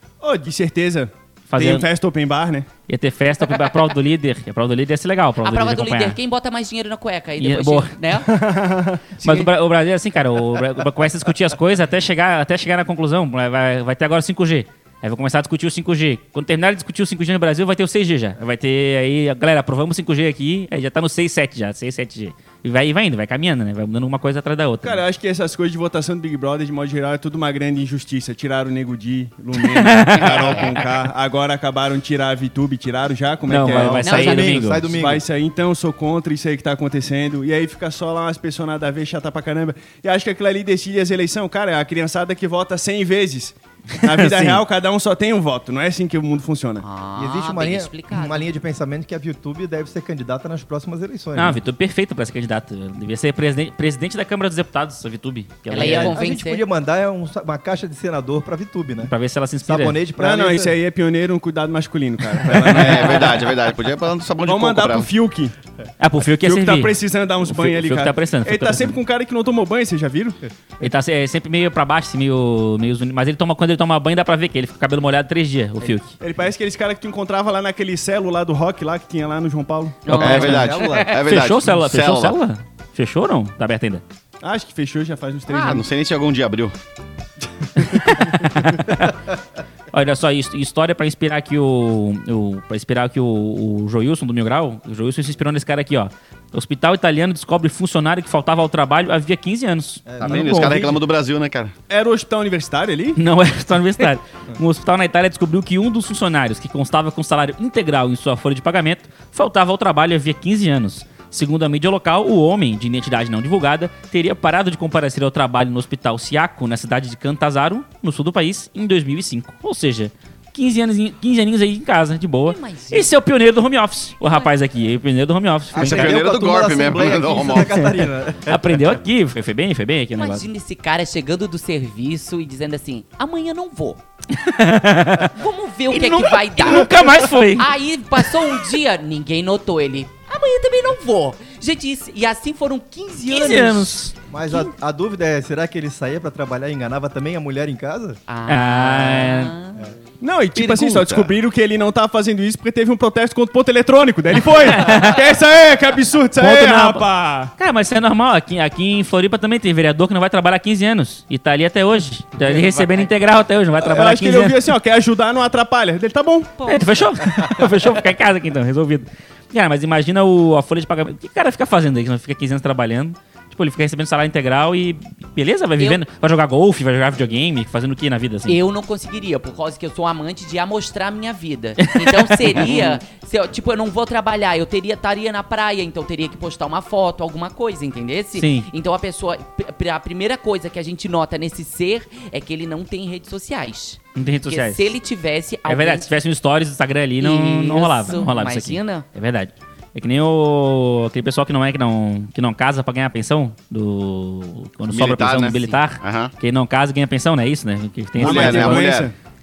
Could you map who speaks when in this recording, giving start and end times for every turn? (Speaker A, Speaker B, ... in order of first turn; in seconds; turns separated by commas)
Speaker A: 0.2-2.7, Speaker B: 1.5-1.9, Speaker B: 2.9-6.2, Speaker C: 5.4-8.3, Speaker B: 7.4-8.0, Speaker A: 8.2-9.0, Speaker B: 9.2-25.0, Speaker A: 24.8-46.8, Speaker B: 29.8-30.7, Speaker C: 30.4-30.7, Speaker B: 33.5-34.9, Speaker D: 33.7-35.2, Speaker C: 34.0-34.4, Speaker B: 44.0-44.6, Speaker C: 46.8-48.5, Speaker D: 47.1-51.6, Speaker B: 51.4-56.2, Speaker C: 55.7-56.6, Speaker D: 55.7-59.1, Speaker B: 59.0-60.0, Speaker D: 59.6-60.7, Speaker A: 60.2-63.5, Speaker E: 62.5-65.1, Speaker A: 64.4-65.5, Speaker B: 66.0-69.0, Speaker A: 66.4-70.4, Speaker B: 70.8-76.1, Speaker A: 76.2-80.4, Speaker C: 80.0-81.1, Speaker B: 80.0-84.0, Speaker E: 80.1-82.4, Speaker D: 80.4-81.1, Speaker A: 84.4-85.8, Speaker C: 85.5-85.8, Speaker E: 85.6-86.7, Speaker B: 87.8-89.2, Speaker A: 88.0-88.4, Speaker B: 89.9-101.0, Speaker D: 100.0-100.9, Speaker E: 100.2-101.7, Speaker A: 101.9-103.2, Speaker B: 103.2-126.2, Speaker C: 122.5-123.1, Speaker C: 124.2-124.5, Speaker D: 125.7-128.6, Speaker E: 125.8-127.9, Speaker B: 128.4-130.5, Speaker C: 130.2-134.0, Speaker B: 134.3-135.3, Speaker C: 135.3-144.0, Speaker B: 135.9-137.7, Speaker B: 143.3-144.1, Speaker D: 144.3-148.2, Speaker C: 148.3-149.9, Speaker B: 148.5-149.5, Speaker A: 150.2-157.5, Speaker B: 154.6-155.2, Speaker B: 156.4-164.6, Speaker C: 162.4-163.1, Speaker A: 163.8-166.5, Speaker C: 166.6-166.9, Speaker B: 166.7-178.6, Speaker C: 178.5-196.1, Speaker B: 181.8-182.9, Speaker B: 188.3-188.7, Speaker B: 194.2-194.9, Speaker B: 195.7-208.9, Speaker C: 197.2-199.1, Speaker E: 204.9-206.3, Speaker A: 208.2-209.1, Speaker E: 208.2-209.1